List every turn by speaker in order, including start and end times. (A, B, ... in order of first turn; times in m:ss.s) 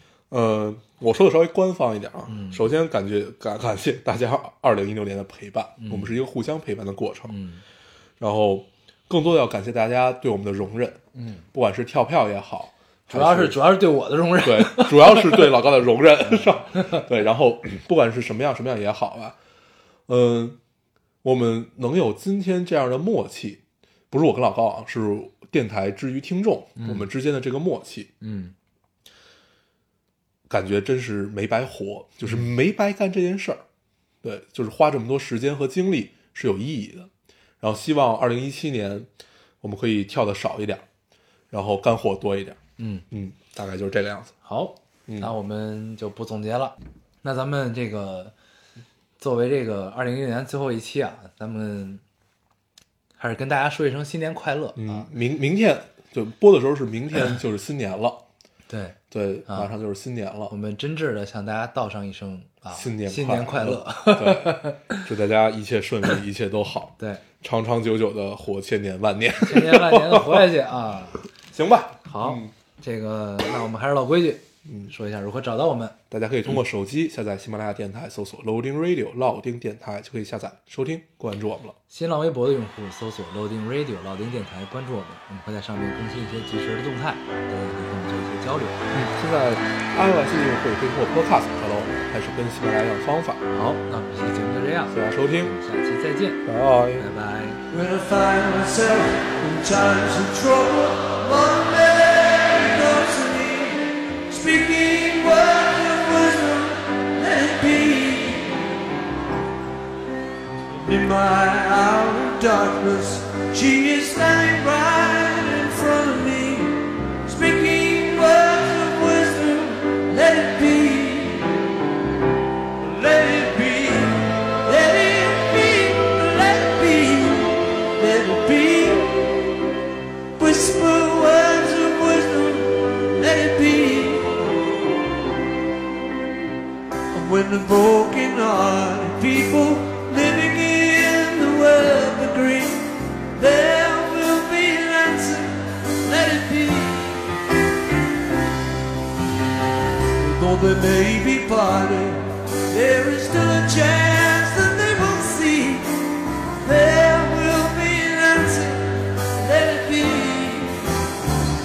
0:00.3-0:07.4 A
0:02.3-0:02.7 B
0:05.8-0:06.2 B
0:07.3-0:07.6 B
0:08.2-0:11.0 A
0:11.1-0:11.4 B
0:11.5-0:13.6 A
0:13.1-0:15.6 B
0:14.4-0:19.4 A
0:16.3-0:17.0 B
0:20.1-0:20.6 A
0:21.2-0:28.1 A
0:26.8-0:27.1 B
0:28.2-0:28.5 B
0:30.5-0:33.6 A
0:34.2-0:37.1 A
0:37.6-0:39.1 A
0:39.6-0:40.8 A
0:41.5-0:42.6 A
0:42.8-0:43.0 B
0:43.1-0:44.4 A
0:44.4-0:48.3 B
0:49.2-0:52.0 B
0:53.2-0:55.1 B
0:54.8-0:58.2 A
0:58.7-0:59.7 B
0:59.1-1:00.5 A
1:00.5-1:05.1 B
1:02.7-1:10.5 A
1:09.4-1:11.2 B
1:11.4-1:12.5 A
1:12.1-1:16.0 B
1:14.6-1:14.9 A
1:16.1-1:21.8 A
1:21.9-1:28.9 B
1:28.9-1:33.4 A
1:33.5-1:37.6 B
1:34.9-1:35.6 A
1:36.5-1:37.1 A
1:37.7-1:48.7 C
1:50.8-2:01.6 C
2:02.8-2:09.4 C
2:10.4-2:14.6 C
2:17.1-2:27.2 C
2:30.2-2:36.0 C
2:36.6-2:40.9 C